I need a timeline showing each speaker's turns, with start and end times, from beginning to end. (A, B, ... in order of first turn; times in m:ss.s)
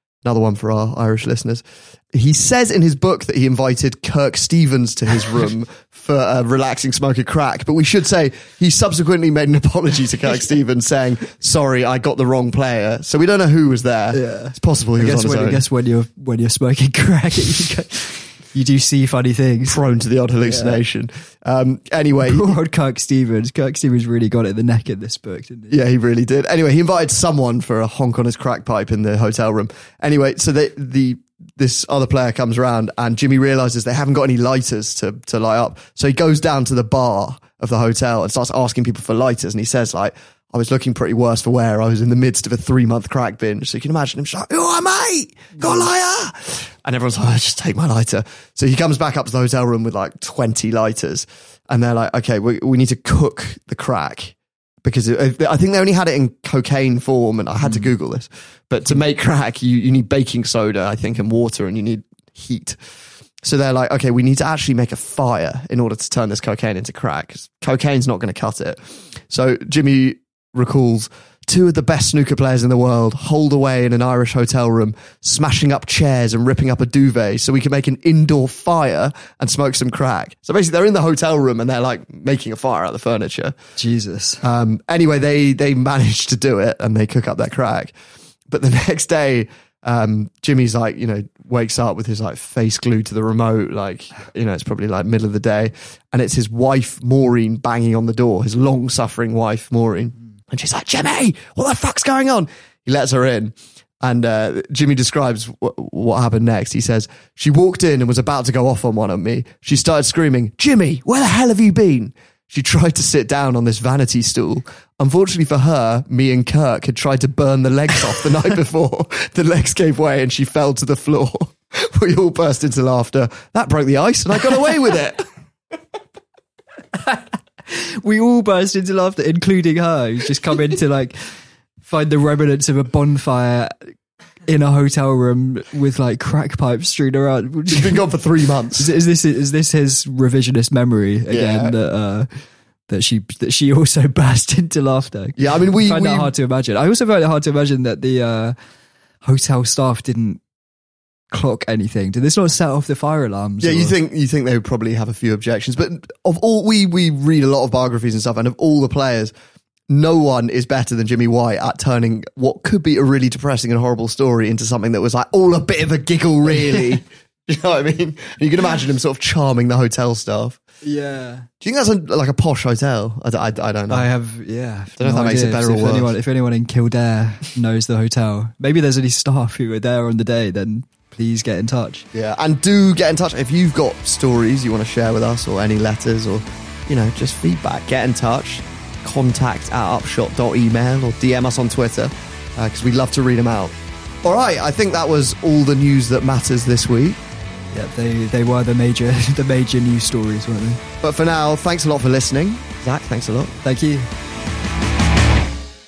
0:00.2-0:15.6 A
0:14.1-0:19.8 B
0:19.7-0:22.6 A
0:20.4-0:20.8 B
0:22.2-0:25.8 B
0:25.7-1:02.8 A
1:03.4-1:23.6 A
1:23.8-1:24.4 B
1:24.4-1:27.9 A
1:28.5-2:05.2 A
2:07.0-2:11.2 B
2:11.8-2:13.9 B
2:14.5-2:18.0 B
2:17.7-2:18.9 A
2:18.8-2:22.3 B
2:21.3-2:21.7 A
2:22.9-2:28.5 B
2:25.4-2:26.3 A
2:29.2-2:30.4 B
2:31.3-2:33.9 B
2:33.6-2:39.3 A
2:39.9-2:50.6 A
2:50.8-2:51.5 B
2:51.6-2:54.1 A
2:53.9-3:02.0 B
2:55.0-2:56.1 A
3:02.1-3:17.2 A
3:17.7-3:20.8 B
3:21.0-3:23.6 A
3:23.6-3:24.1 B